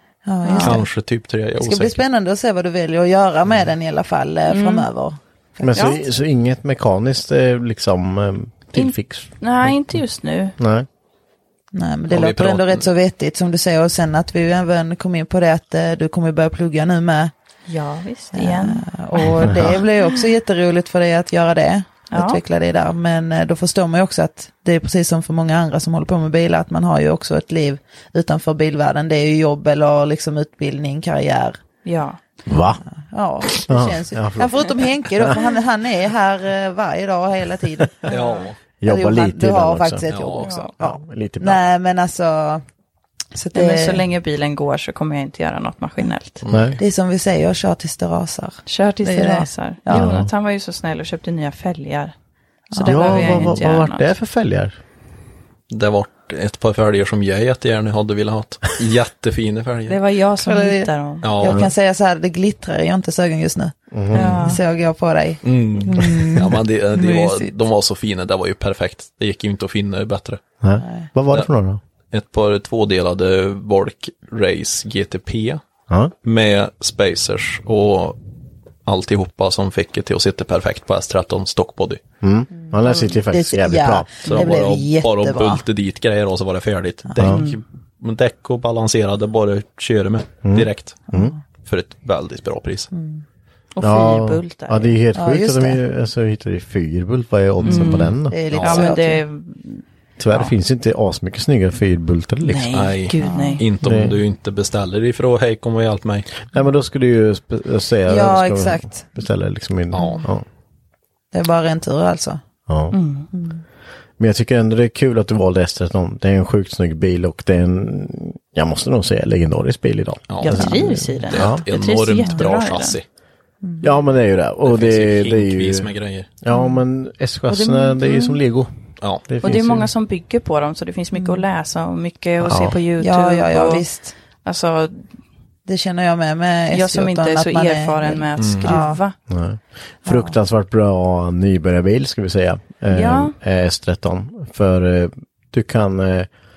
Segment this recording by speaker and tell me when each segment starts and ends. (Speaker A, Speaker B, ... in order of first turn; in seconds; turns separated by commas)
Speaker A: 0.2-0.8, Speaker B: 0.4-0.8, Speaker C: 0.6-2.0, Speaker A: 1.6-6.0, Speaker B: 4.5-4.9, Speaker D: 5.6-9.8, Speaker B: 5.7-6.0, Speaker B: 8.7-10.6, Speaker D: 10.6-10.9, Speaker A: 11.7-17.3, Speaker C: 12.1-12.9, Speaker B: 17.7-19.5, Speaker A: 18.3-31.6, Speaker D: 19.5-19.8, Speaker B: 22.1-22.4, Speaker B: 31.9-32.2, Speaker D: 32.5-32.8, Speaker A: 33.1-38.2, Speaker D: 33.6-35.4, Speaker C: 38.1-38.6, Speaker B: 38.1-38.4, Speaker D: 38.8-40.1, Speaker A: 38.9-42.6, Speaker C: 40.1-40.5, Speaker B: 40.4-40.7, Speaker D: 40.8-41.6, Speaker A: 43.3-44.0, Speaker B: 43.5-46.4, Speaker C: 46.4-46.8, Speaker D: 46.5-46.8, Speaker A: 46.8-50.2, Speaker B: 48.7-52.1, Speaker D: 49.9-50.3, Speaker B: 52.7-54.1, Speaker A: 52.7-53.6, Speaker D: 52.9-54.8, Speaker C: 55.7-60.0, Speaker B: 59.9-61.4, Speaker A: 60.4-67.5, Speaker C: 61.2-61.6, Speaker D: 63.9-64.5, Speaker B: 64.1-64.6, Speaker C: 65.4-70.4, Speaker D: 70.6-71.8, Speaker A: 70.8-71.1, Speaker C: 72.1-75.6, Speaker C: 76.2-78.2, Speaker C: 78.9-82.0, Speaker D: 82.2-84.7, Speaker A: 82.6-85.6, Speaker C: 84.2-91.0, Speaker A: 87.1-87.4, Speaker B: 87.3-87.6, Speaker D: 90.5-91.3, Speaker A: 91.1-91.4, Speaker C: 91.7-92.9, Speaker A: 92.9-93.2, Speaker B: 93.8-95.0, Speaker D: 93.8-98.4, Speaker A: 95.2-95.8, Speaker C: 97.6-98.9, Speaker B: 97.7-100.5, Speaker A: 98.3-99.2, Speaker D: 100.2-102.9, Speaker B: 102.4-103.7, Speaker C: 102.7-106.3, Speaker A: 103.2-103.6, Speaker D: 103.8-104.2, Speaker D: 106.5-110.5, Speaker A: 108.1-109.1, Speaker C: 109.9-110.2, Speaker A: 111.3-112.4, Speaker D: 112.7-113.0, Speaker B: 112.9-113.3, Speaker A: 113.3-113.6, Speaker D: 114.2-121.6, Speaker C: 120.3-120.8, Speaker B: 120.4-123.0, Speaker C: 121.3-123.0, Speaker A: 123.6-123.9, Speaker D: 123.8-125.9, Speaker C: 124.7-126.3, Speaker D: 126.4-128.7, Speaker A: 126.5-126.8, Speaker A: 127.5-128.2, Speaker C: 129.0-129.3, Speaker D: 129.3-129.9, Speaker B: 129.4-133.9, Speaker A: 131.1-131.5, Speaker D: 132.4-132.8, Speaker A: 133.0-134.1, Speaker B: 134.4-135.1, Speaker A: 135.7-139.0, Speaker B: 136.7-139.2, Speaker C: 138.4-138.7, Speaker D: 139.3-146.3, Speaker A: 140.1-140.3, Speaker B: 142.9-143.3